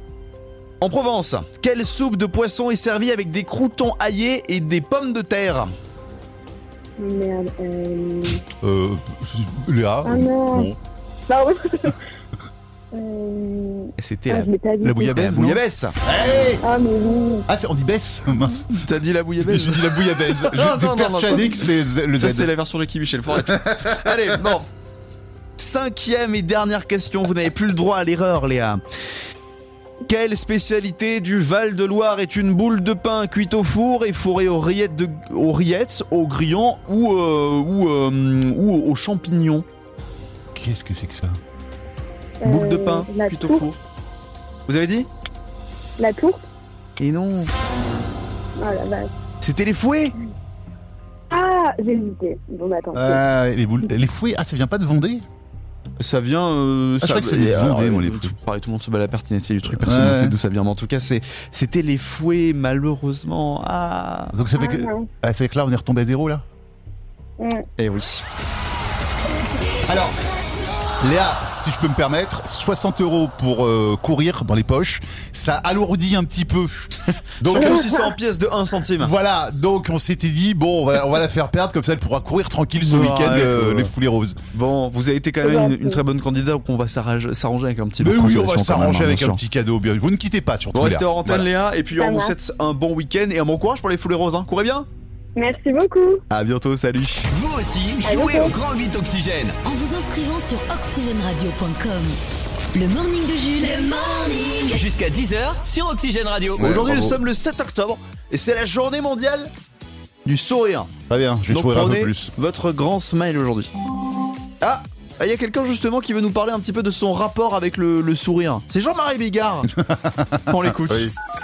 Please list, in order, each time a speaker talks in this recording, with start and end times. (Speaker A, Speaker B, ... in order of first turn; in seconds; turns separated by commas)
Speaker A: 0.8-5.7, Speaker B: 7.0-8.4, Speaker C: 8.6-10.8, Speaker B: 10.0-10.7, Speaker B: 11.3-11.9, Speaker B: 12.9-15.2, Speaker A: 14.0-14.5, Speaker C: 14.8-16.6, Speaker A: 15.0-15.9, Speaker B: 16.6-17.5, Speaker C: 17.5-18.8, Speaker A: 18.7-24.7, Speaker C: 19.4-22.5, Speaker C: 23.3-24.4, Speaker A: 25.6-28.8, Speaker A: 30.0-39.6, Speaker C: 40.5-41.4, Speaker B: 42.4-43.6, Speaker A: 42.4-43.8, Speaker A: 44.7-45.1, Speaker B: 46.0-46.4, Speaker A: 47.0-47.5, Speaker B: 48.6-49.1, Speaker A: 49.4-50.1, Speaker B: 51.3-53.2, Speaker C: 52.9-55.2, Speaker A: 56.0-64.3, Speaker C: 57.0-58.3, Speaker C: 59.8-60.4, Speaker C: 64.3-66.4, Speaker B: 64.5-65.1, Speaker B: 67.4-67.7, Speaker A: 67.8-68.2, Speaker D: 69.2-71.0, Speaker C: 69.9-70.2, Speaker C: 71.0-77.9, Speaker A: 77.4-79.1, Speaker C: 79.0-84.4, Speaker A: 82.8-83.9, Speaker A: 84.5-89.4, Speaker B: 85.4-86.0, Speaker C: 88.0-91.5, Speaker A: 90.7-94.9, Speaker B: 92.0-92.3, Speaker B: 95.3-96.2, Speaker A: 96.3-97.3, Speaker E: 97.3-99.5, Speaker B: 98.0-98.5, Speaker D: 99.6-102.2, Speaker D: 102.7-104.8, Speaker E: 104.7-106.7, Speaker C: 106.6-107.2, Speaker A: 106.6-109.5, Speaker A: 110.2-110.9, Speaker C: 111.1-112.3, Speaker A: 111.5-113.7, Speaker A: 114.6-119.7, Speaker C: 119.7-121.1, Speaker A: 120.5-121.1